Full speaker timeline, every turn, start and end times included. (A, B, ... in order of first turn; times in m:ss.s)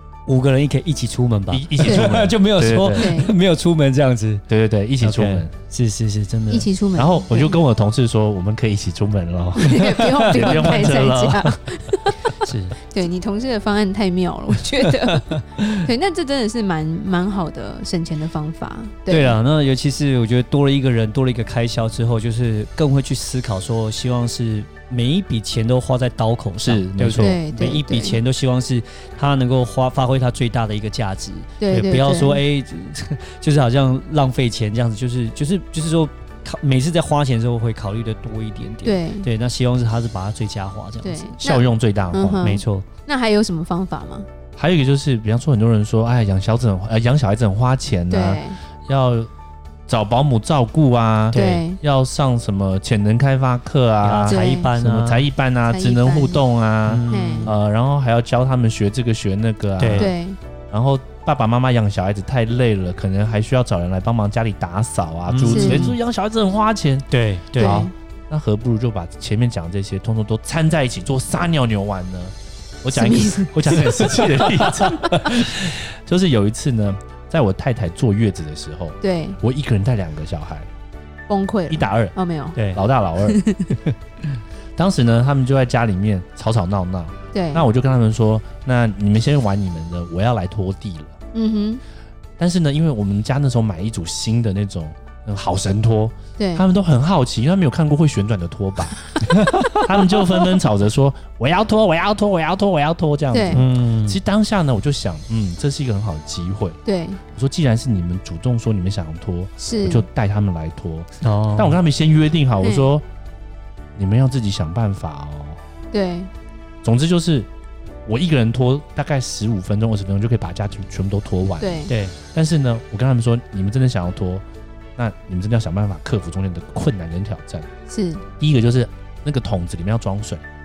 0:00.2-0:04.4 A
0:01.5-0:03.1 B
0:01.8-0:02.2 C
0:02.9-0:03.3 C
0:04.5-0:05.5 B
0:05.0-0:06.7 A
0:06.5-0:07.6 C
0:06.9-0:11.5 B
0:09.6-0:12.2 C
0:09.8-0:11.0 A
0:12.4-0:12.7 A
0:12.8-0:19.4 C
0:14.8-0:15.8 A
0:19.1-0:41.4 A
0:26.6-0:27.4 B
0:27.2-0:28.2 C
0:31.6-0:32.4 C
0:38.8-0:39.3 C
0:41.0-0:44.3 C
0:41.4-0:42.6 B
0:42.4-0:42.8 A
0:44.6-0:49.3 B
0:48.1-0:48.6 C
0:49.9-1:00.1 B
0:51.3-0:51.6 A
0:51.3-0:51.8 C
0:54.0-0:55.2 A
0:54.3-0:54.7 C
0:55.7-0:56.4 C
0:56.9-0:57.5 A
0:57.1-0:57.5 C
0:59.8-1:00.1 A
0:59.9-1:00.4 C
1:00.7-1:20.7 B
1:05.3-1:06.0 A
1:05.4-1:05.9 C
1:07.1-1:07.9 A
1:07.6-1:07.9 C
1:12.9-1:15.1 C
1:19.0-1:19.4 C
1:21.3-1:22.6 C
1:21.7-1:22.2 B
1:22.5-1:22.8 A
1:22.7-1:23.4 B
1:23.2-1:23.7 C
1:24.8-1:31.2 B
1:27.3-1:27.6 C
1:31.3-1:31.8 C
1:32.4-1:39.1 B
1:36.4-1:36.7 C
1:39.3-1:39.8 A
1:39.7-1:46.8 B
1:43.3-1:43.6 C
1:43.5-1:44.2 A
1:46.8-1:47.2 C
1:47.3-1:53.0 B
1:49.6-1:50.0 C
1:51.2-1:51.8 A
1:52.6-1:52.9 C
1:54.0-1:55.6 B
1:55.9-1:56.3 C
1:56.8-1:57.5 B
1:58.0-2:04.4 B
2:01.6-2:02.0 C
2:01.9-2:02.1 A
2:05.0-2:07.7 B
2:07.9-2:08.2 C
2:08.4-2:10.4 B